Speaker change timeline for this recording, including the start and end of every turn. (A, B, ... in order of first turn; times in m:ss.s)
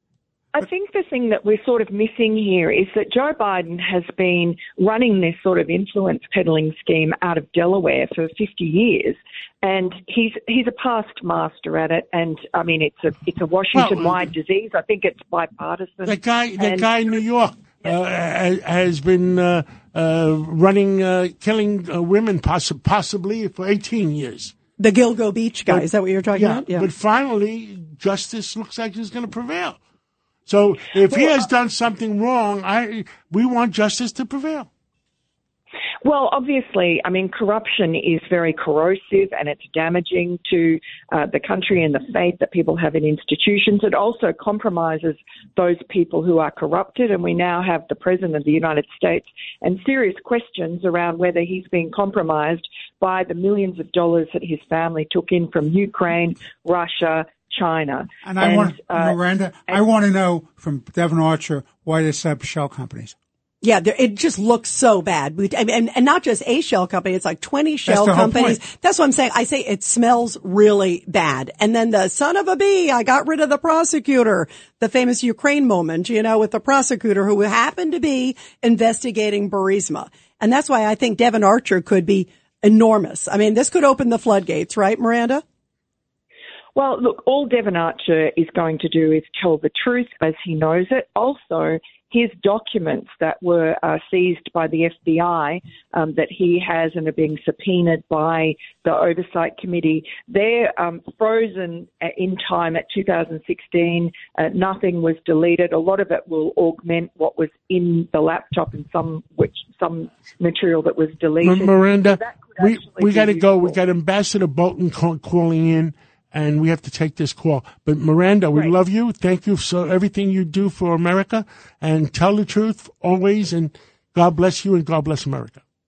0:00.5-0:17.0 A
0:13.7-0:14.3 B
0:16.0-0:24.5 B
0:24.8-0:26.9 C
0:25.7-0:29.8 B
0:30.4-0:34.7 B
0:31.1-0:31.4 A
0:36.0-0:59.8 A
0:58.2-1:03.1 D
1:03.6-1:25.4 C
1:07.8-1:08.6 D
1:26.7-1:53.8 A
1:51.4-2:05.6 B